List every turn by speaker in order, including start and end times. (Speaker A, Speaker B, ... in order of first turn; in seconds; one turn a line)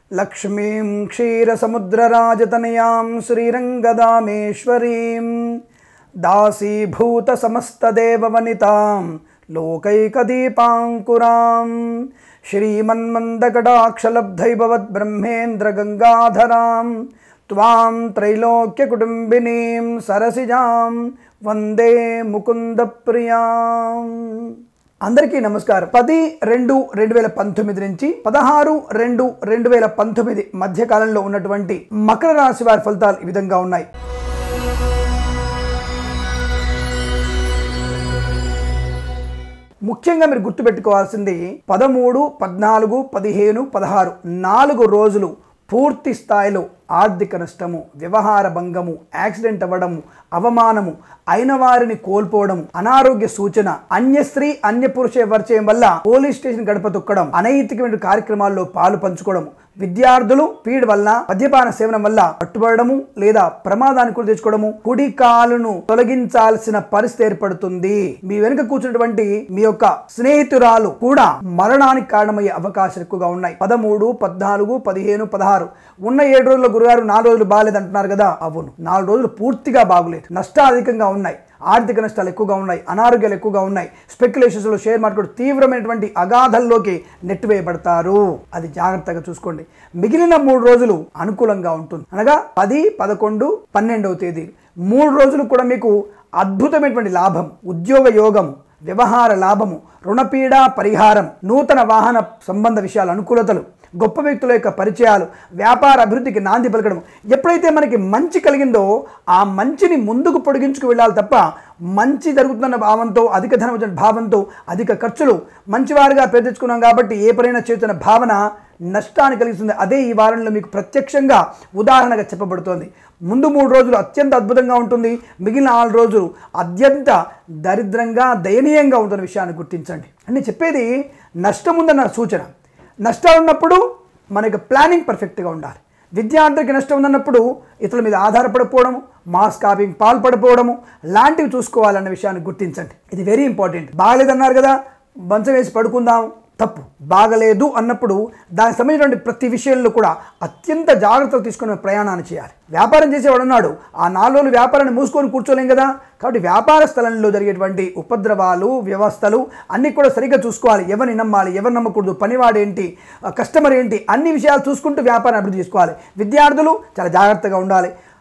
Speaker A: 0.1-5.5
Speaker A: 6.2-33.9
Speaker A: 39.9-130.9
Speaker A: 131.4-132.5
Speaker A: 133.0-144.8
Speaker A: 145.3-167.9